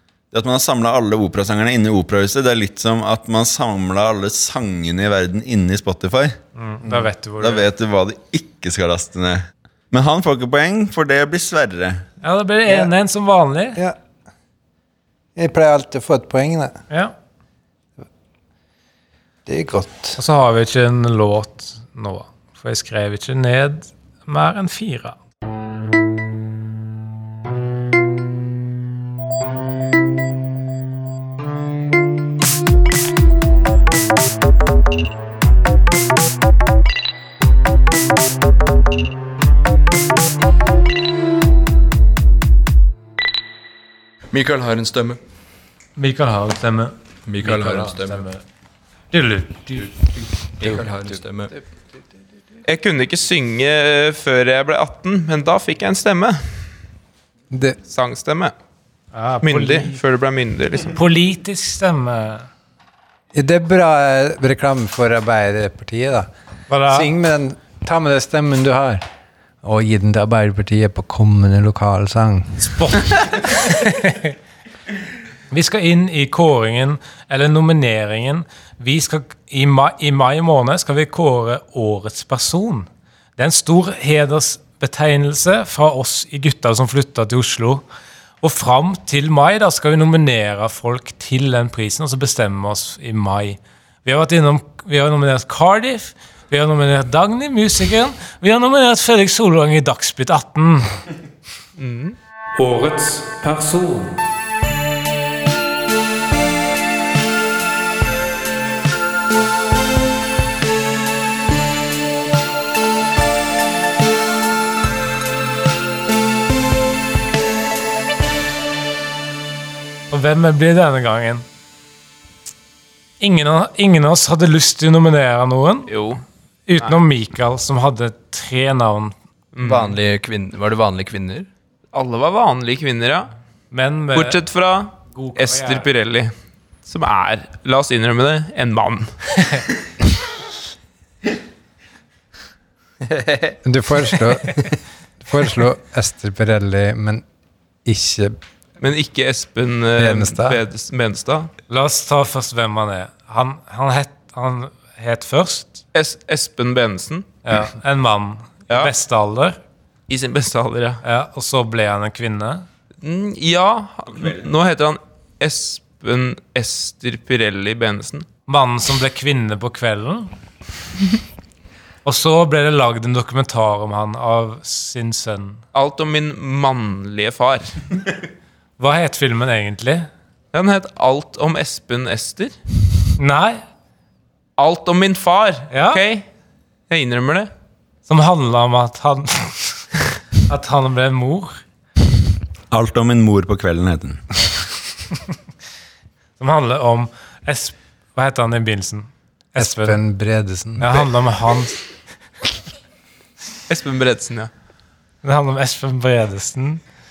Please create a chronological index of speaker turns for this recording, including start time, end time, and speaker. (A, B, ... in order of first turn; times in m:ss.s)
0:00.3-0:06.3 A
0:06.6-0:07.6 B
0:06.8-0:07.1 C
0:07.4-0:12.0 A
0:12.2-0:13.8 B
0:15.4-0:16.8 C
0:19.4-0:20.2 C
0:20.2-0:25.2 B
0:44.3-0:45.2 D
0:46.0-0:48.4 B
0:47.2-0:48.2 D
0:49.1-0:49.9 B
0:50.6-0:51.5 D
0:52.6-0:56.7 E
0:57.5-0:57.8 C
0:57.9-0:58.5 E
0:59.1-1:00.0 B
0:59.4-1:00.9 E
1:00.9-1:02.5 B
1:03.3-1:06.3 C
1:06.7-1:07.1 B
1:06.9-1:09.0 C
1:09.6-1:12.8 C
1:12.6-1:14.3 B
1:15.5-1:27.8 B
1:28.4-1:41.0 B
1:41.8-1:42.2 E
1:42.6-1:44.2 B
2:00.1-2:01.4 B
2:03.2-2:05.9 B
2:05.9-2:06.2 E
2:06.7-2:09.1 B
2:09.6-2:10.0 E
2:09.6-2:11.4 D
2:11.9-2:13.3 E
2:13.7-2:14.4 B
2:14.1-2:19.6 E
2:15.1-2:15.9 B
2:23.0-2:23.6 D
2:23.6-2:27.2 C
2:27.8-2:28.4 C
2:28.8-2:31.5 E
2:30.0-2:30.6 C
2:31.7-2:35.8 B
2:35.9-2:37.3 E
2:37.4-2:39.6 B
2:40.1-2:41.0 E
2:41.0-2:42.6 B
2:43.0-2:48.3 E
2:44.1-2:44.4 A
2:48.5-2:50.3 B
2:52.0-2:55.6 B
2:55.7-2:57.8 E
2:58.8-3:00.1 B
3:00.5-3:02.6 E
3:03.2-3:03.6 B
3:04.6-3:06.2 E
3:05.7-3:06.0 B
3:06.9-3:07.5 E
3:08.1-3:09.9 B
3:10.4-3:11.6 B
3:12.7-3:14.5 A
3:16.4-3:20.0 B
3:19.6-3:21.0 C
3:20.8-3:21.8 B
3:23.7-3:24.5 E
3:25.2-3:26.8 B